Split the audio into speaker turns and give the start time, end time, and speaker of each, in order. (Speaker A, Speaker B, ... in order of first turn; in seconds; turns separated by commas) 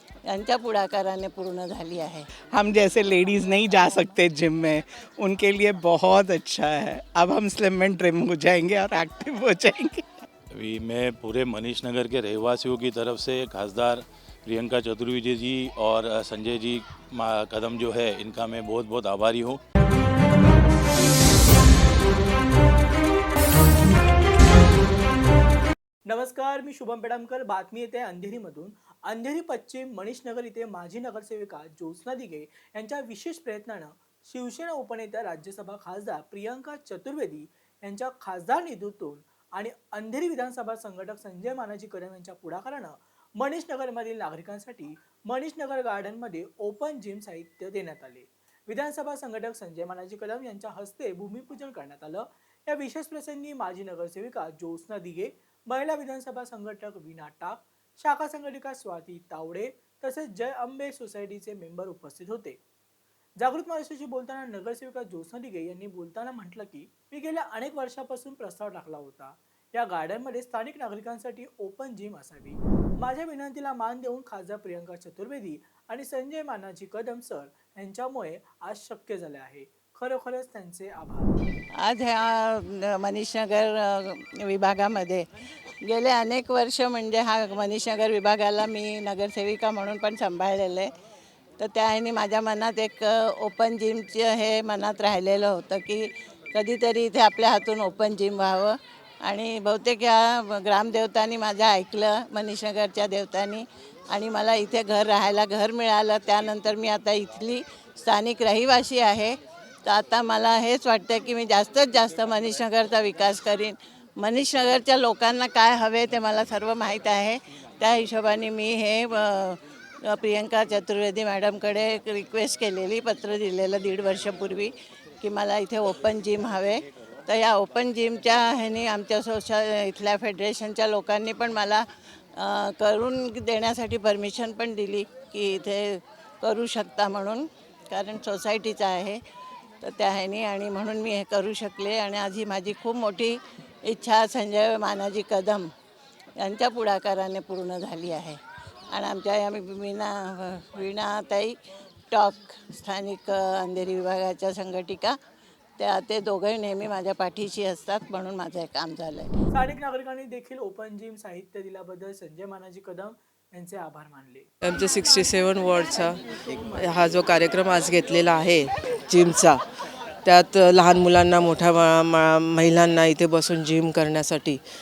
Speaker A: 0.3-2.3, Speaker B: 2.5-10.0, Speaker C: 10.5-19.6, Speaker D: 26.1-62.6, Speaker D: 63.4-81.3, Speaker A: 81.8-90.9, Speaker A: 91.6-139.2, Speaker A: 139.8-145.7, Speaker A: 146.4-148.4, Speaker A: 148.9-151.6, Speaker A: 152.1-155.2, Speaker A: 155.8-159.3, Speaker D: 159.5-164.5, Speaker E: 164.7-169.6, Speaker E: 170.2-174.6